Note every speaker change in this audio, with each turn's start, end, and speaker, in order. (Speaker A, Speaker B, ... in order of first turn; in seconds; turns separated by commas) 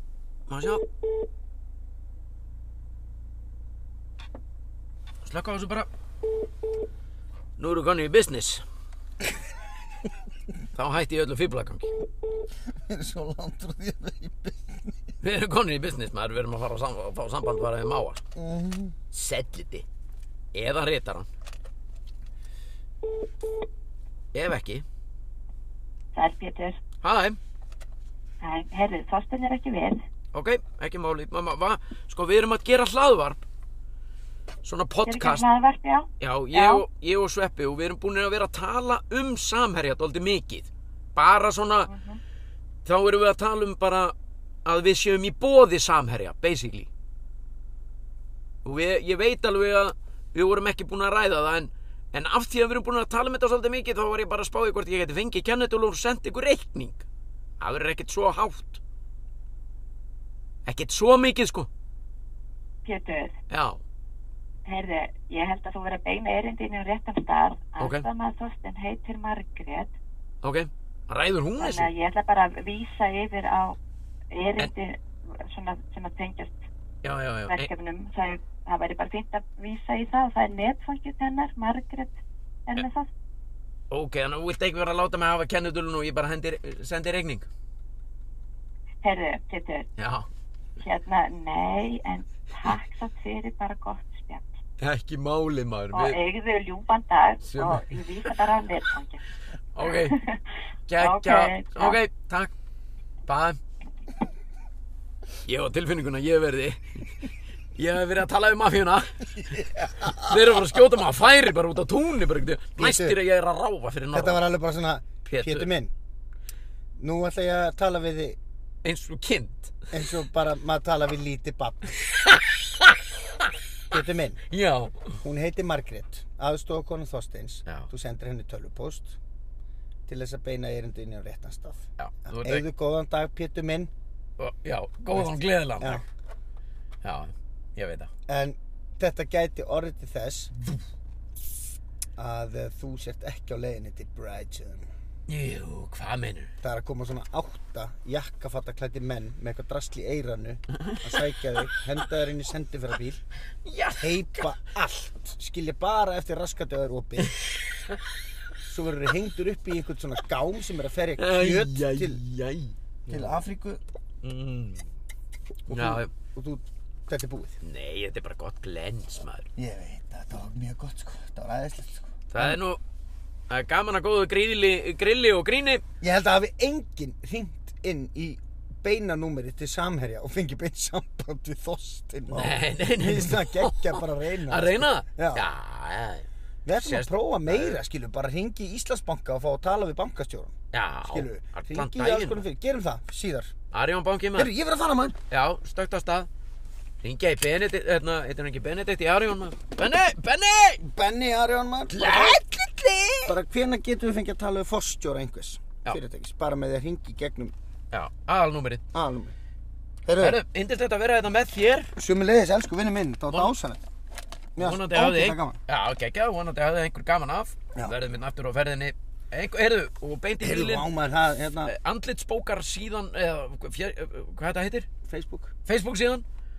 Speaker A: 0.5-0.8, Speaker A: 5.2-5.9, Speaker A: 7.6-8.6, Speaker A: 10.7-11.9, Speaker B: 12.7-14.9, Speaker A: 15.2-18.2, Speaker B: 18.4-18.9, Speaker A: 19.1-19.9, Speaker A: 20.5-21.3, Speaker A: 24.3-24.8, Speaker C: 26.1-26.8, Speaker A: 27.0-27.4, Speaker C: 28.4-30.0, Speaker A: 30.3-33.4, Speaker A: 34.6-35.5, Speaker C: 35.1-36.8, Speaker A: 36.2-41.9, Speaker C: 41.9-42.2, Speaker A: 42.9-44.1, Speaker A: 44.6-46.9, Speaker A: 48.6-57.1, Speaker A: 57.6-58.8, Speaker A: 60.7-61.7, Speaker C: 62.9-63.4, Speaker A: 63.5-63.8, Speaker C: 64.7-69.9, Speaker A: 67.8-68.1, Speaker A: 70.4-71.9, Speaker C: 71.6-73.8, Speaker C: 74.3-76.6, Speaker A: 77.0-77.7, Speaker C: 77.5-83.1, Speaker A: 83.9-87.5, Speaker C: 89.0-89.9, Speaker A: 90.0-90.3, Speaker C: 90.8-94.5, Speaker A: 94.8-96.2, Speaker C: 95.9-99.2, Speaker A: 97.5-98.3, Speaker A: 99.8-100.2, Speaker C: 99.8-100.4, Speaker A: 100.9-102.5, Speaker C: 101.0-102.0, Speaker A: 103.3-103.6, Speaker A: 105.5-107.1, Speaker A: 107.8-114.4, Speaker B: 109.8-110.4, Speaker B: 112.8-113.2, Speaker B: 114.1-115.9, Speaker A: 115.2-115.7, Speaker B: 117.0-118.4, Speaker A: 118.8-119.7, Speaker B: 119.9-121.9, Speaker A: 122.0-123.5, Speaker B: 123.9-124.4, Speaker A: 124.5-125.2, Speaker B: 125.2-129.2, Speaker B: 130.1-133.9, Speaker A: 132.0-132.7, Speaker A: 134.4-136.1, Speaker B: 135.2-136.0, Speaker A: 137.0-138.1, Speaker B: 138.3-140.5, Speaker B: 142.2-144.9, Speaker A: 145.3-146.5, Speaker B: 146.6-153.2, Speaker A: 153.7-154.6, Speaker B: 154.0-157.4, Speaker B: 158.7-162.2, Speaker A: 161.2-163.4, Speaker B: 163.1-163.8, Speaker A: 164.2-164.9, Speaker A: 165.7-166.1, Speaker B: 165.7-167.6, Speaker A: 167.6-169.5, Speaker B: 169.6-172.6, Speaker A: 172.3-172.8, Speaker A: 173.5-175.8, Speaker B: 176.0-185.5, Speaker A: 182.3-186.3, Speaker B: 186.7-190.5, Speaker A: 186.8-187.8, Speaker A: 190.7-192.4, Speaker B: 191.1-193.5, Speaker A: 193.7-194.5, Speaker B: 194.4-195.2, Speaker A: 195.3-196.3, Speaker A: 197.0-200.8, Speaker B: 200.8-202.4, Speaker A: 201.9-203.3, Speaker B: 203.3-207.5, Speaker A: 207.9-208.8, Speaker B: 208.9-209.3, Speaker B: 210.1-210.4, Speaker A: 210.2-211.9, Speaker B: 212.0-213.8, Speaker B: 214.6-215.6, Speaker A: 214.6-220.9, Speaker B: 220.4-221.7, Speaker A: 221.7-224.9, Speaker B: 225.1-225.5, Speaker A: 225.7-226.2